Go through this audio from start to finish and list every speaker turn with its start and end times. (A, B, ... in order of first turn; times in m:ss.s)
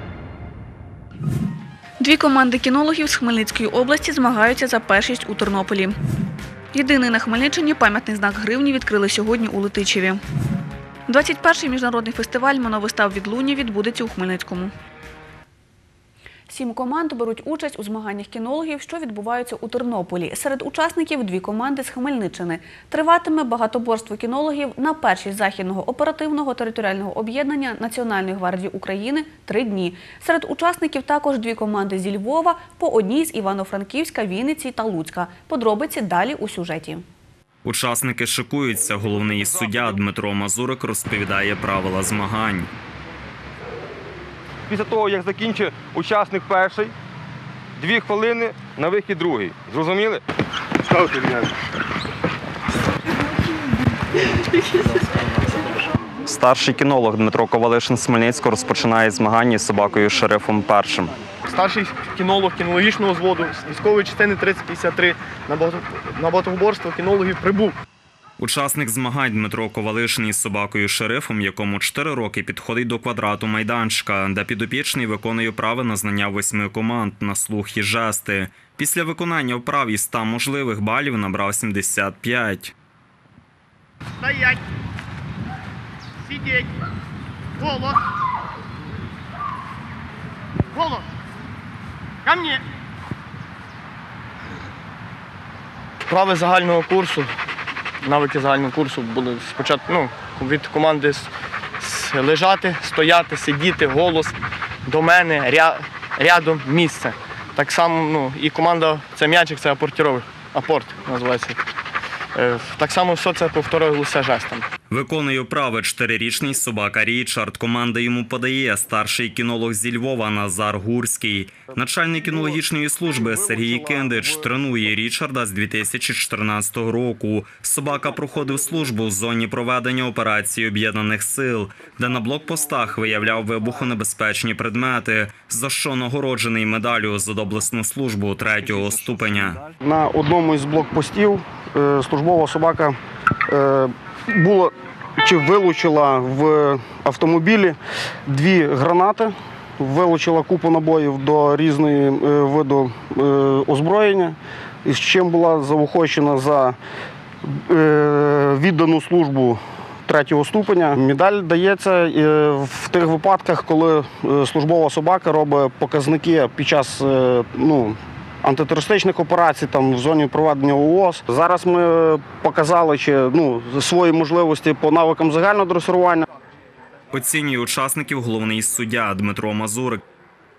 0:02.0-0:06.0 A
0:06.7-0:10.2 A
0:11.1-0:14.7 A
0:16.5-0:37.0 A
0:37.6-0:42.7 B
0:44.7-0:46.9 C
0:47.8-0:50.2 C
0:56.3-1:01.2 B
1:01.5-1:07.8 D
1:08.4-1:22.7 B
1:24.2-1:24.6 D
1:26.3-1:26.7 D
1:27.6-1:28.0 D
1:30.7-1:31.0 D
1:32.2-1:32.6 D
1:36.1-1:37.3 D
1:38.0-1:44.4 D
1:44.9-1:51.6 D
1:52.4-1:54.7 D
1:54.9-2:19.6 B
2:03.5-2:04.3 E
2:19.8-2:23.0 E
2:23.5-2:36.8 E
2:37.5-2:56.3 E
2:57.1-3:00.0 B